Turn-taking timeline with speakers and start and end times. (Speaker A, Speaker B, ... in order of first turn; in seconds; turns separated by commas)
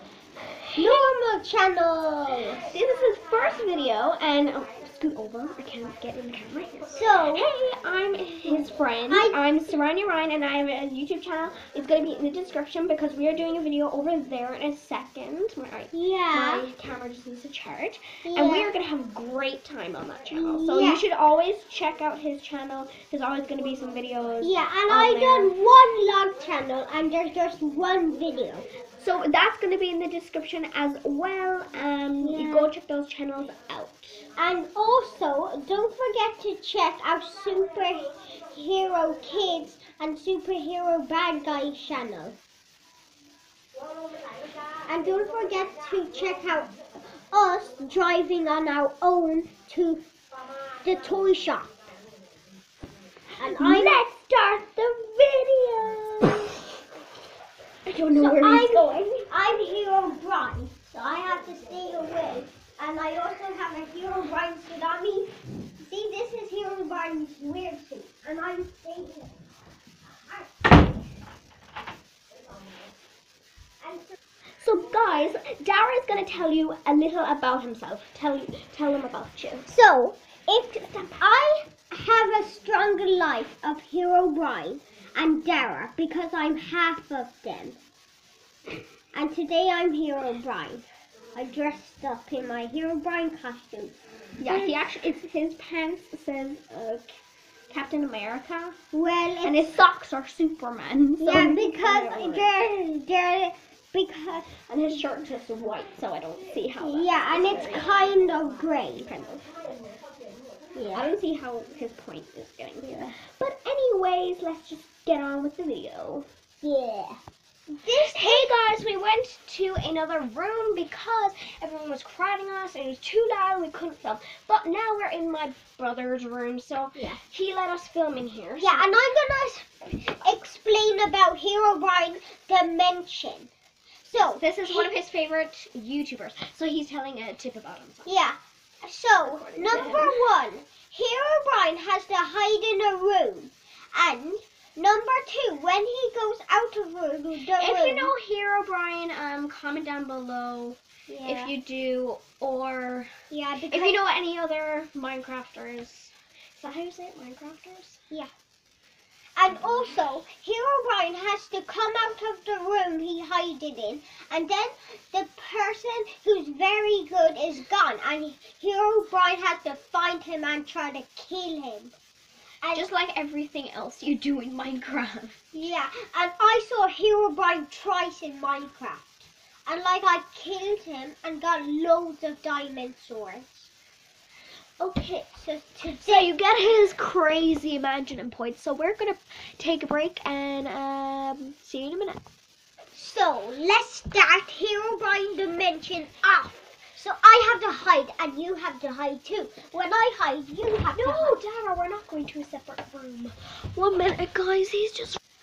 Speaker A: 0.6-1.1, Speaker B: 0.7-2.7, Speaker A: 2.7-25.5, Speaker B: 6.9-7.4, Speaker B: 8.5-9.4, Speaker B: 15.9-16.6, Speaker B: 18.2-18.7, Speaker B: 20.3-21.0, Speaker B: 24.4-28.6, Speaker A: 29.0-34.2, Speaker B: 32.2-32.7, Speaker B: 34.4-42.4, Speaker B: 44.9-50.0, Speaker B: 50.8-51.7, Speaker B: 53.4-54.0, Speaker A: 53.4-56.3, Speaker A: 57.9-59.2, Speaker B: 58.2-69.3, Speaker B: 70.3-70.8, Speaker B: 73.8-74.2, Speaker A: 74.6-79.7, Speaker B: 79.7-87.8, Speaker B: 89.1-94.7, Speaker A: 94.4-97.1, Speaker A: 97.7-98.8, Speaker B: 98.9-99.8, Speaker A: 99.4-102.5, Speaker B: 101.2-104.5, Speaker A: 104.7-107.9, Speaker B: 106.8-109.4, Speaker B: 110.7-111.0, Speaker A: 110.8-116.3, Speaker B: 112.8-113.1, Speaker B: 116.6-117.2, Speaker B: 117.8-118.5, Speaker A: 117.9-129.0, Speaker B: 128.6-133.5, Speaker B: 134.0-134.9, Speaker A: 134.2-138.1, Speaker B: 138.0-148.1, Speaker A: 139.2-140.2, Speaker A: 147.6-153.1, Speaker B: 151.1-151.5, Speaker B: 153.3-154.0, Speaker A: 153.7-158.0, Speaker B: 159.4-171.9, Speaker B: 172.6-172.9, Speaker A: 172.7-175.4, Speaker B: 175.5-183.7, Speaker B: 184.8-186.3, Speaker A: 186.0-192.2, Speaker B: 192.9-201.4, Speaker A: 200.9-205.2